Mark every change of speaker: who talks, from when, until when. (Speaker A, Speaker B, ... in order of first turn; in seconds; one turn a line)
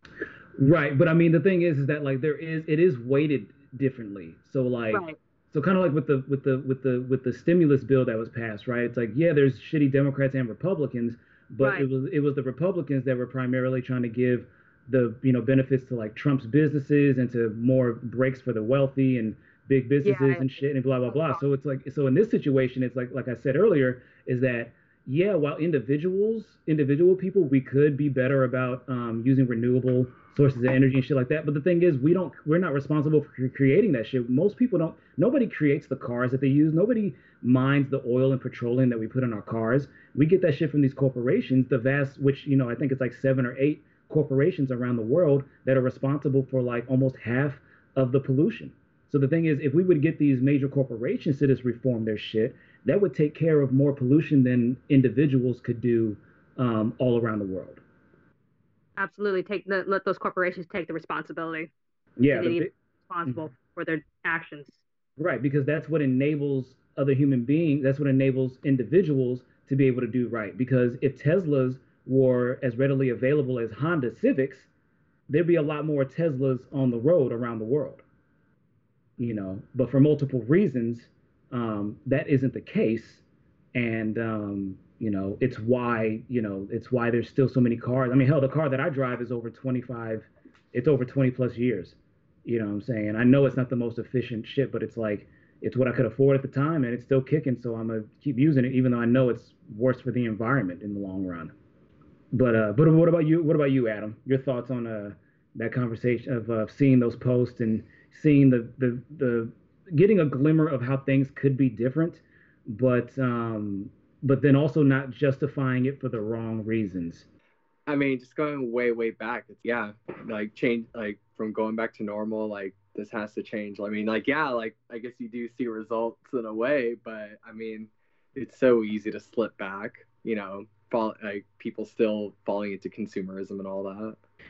Speaker A: 0.6-57.8
Speaker B: 4.9-5.2
Speaker B: 11.6-11.9
Speaker B: 20.0-20.5
Speaker B: 59.0-61.7
Speaker A: 62.2-62.7
Speaker B: 62.3-64.8
Speaker A: 65.2-74.7
Speaker A: 75.3-78.0
Speaker A: 79.2-83.2
Speaker A: 83.7-101.5
Speaker A: 102.3-117.3
Speaker C: 117.9-134.2